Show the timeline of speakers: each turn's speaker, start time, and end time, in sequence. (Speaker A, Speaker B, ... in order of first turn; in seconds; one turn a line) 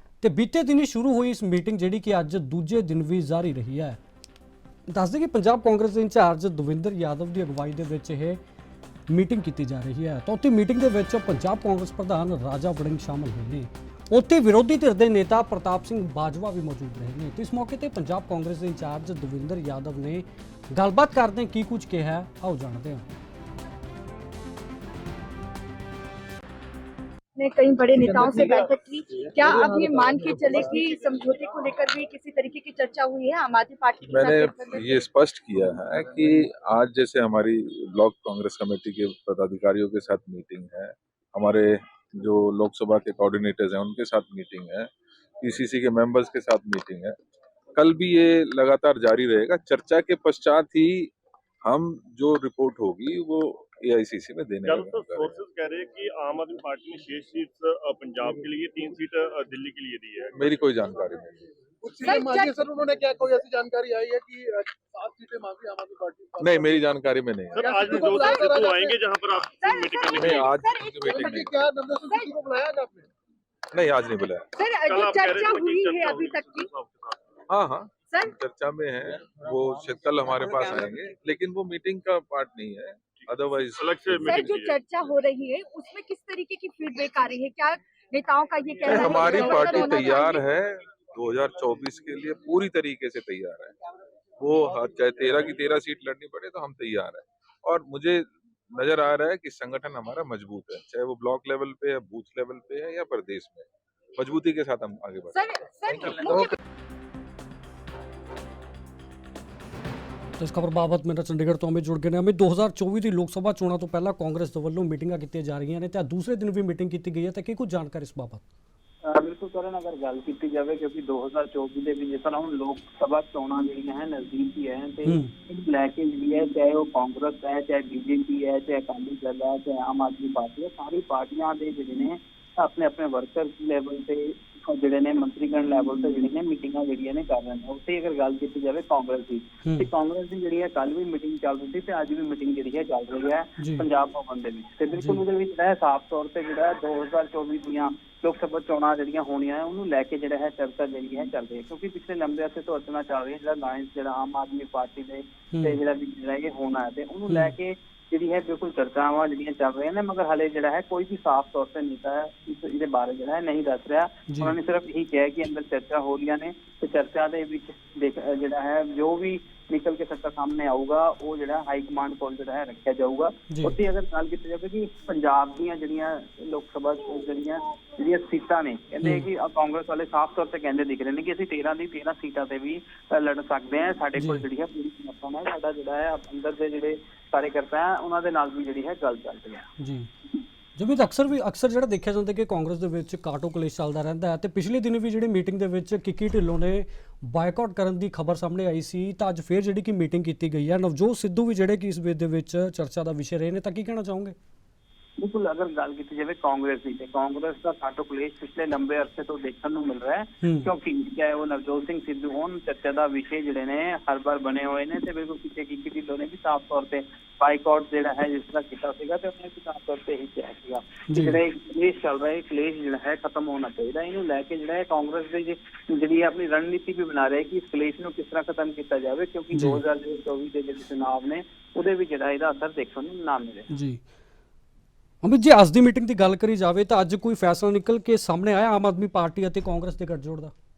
Speaker A: 0.2-4.0
Speaker A: 4.9-8.4
Speaker A: 9.1-23.1
Speaker B: 27.4-35.0
Speaker C: 28.0-28.7
Speaker D: 28.4-28.6
Speaker C: 29.4-30.9
Speaker E: 34.1-47.1
Speaker E: 47.7-51.1
Speaker E: 51.6-55.4
Speaker D: 54.6-60.4
Speaker E: 60.3-61.3
Speaker C: 61.8-66.8
Speaker B: 62.0-62.6
Speaker E: 66.4-68.0
Speaker D: 67.5-70.5
Speaker C: 67.6-69.0
Speaker B: 68.0-68.6
Speaker B: 69.6-71.5
Speaker E: 70.1-71.5
Speaker C: 71.1-73.1
Speaker B: 72.0-72.3
Speaker E: 73.7-74.5
Speaker B: 74.5-76.7
Speaker D: 74.8-77.2
Speaker E: 77.5-84.4
Speaker B: 78.1-78.3
Speaker D: 83.2-84.9
Speaker B: 84.1-90.4
Speaker E: 88.8-93.7
Speaker E: 94.4-103.7
Speaker E: 104.2-106.5
Speaker B: 105.3-106.6
Speaker A: 110.4-118.4
Speaker F: 119.0-189.7
Speaker A: 125.0-125.3
Speaker A: 143.6-143.8
Speaker A: 144.9-145.2
Speaker A: 155.5-155.8
Speaker A: 164.3-164.6
Speaker A: 173.5-173.8
Speaker A: 184.2-184.4
Speaker A: 189.8-190.1
Speaker A: 190.8-204.3
Speaker F: 205.2-233.7
Speaker A: 210.4-210.7
Speaker A: 221.1-221.4
Speaker A: 229.5-229.8
Speaker A: 233.7-234.0
Speaker A: 235.2-240.5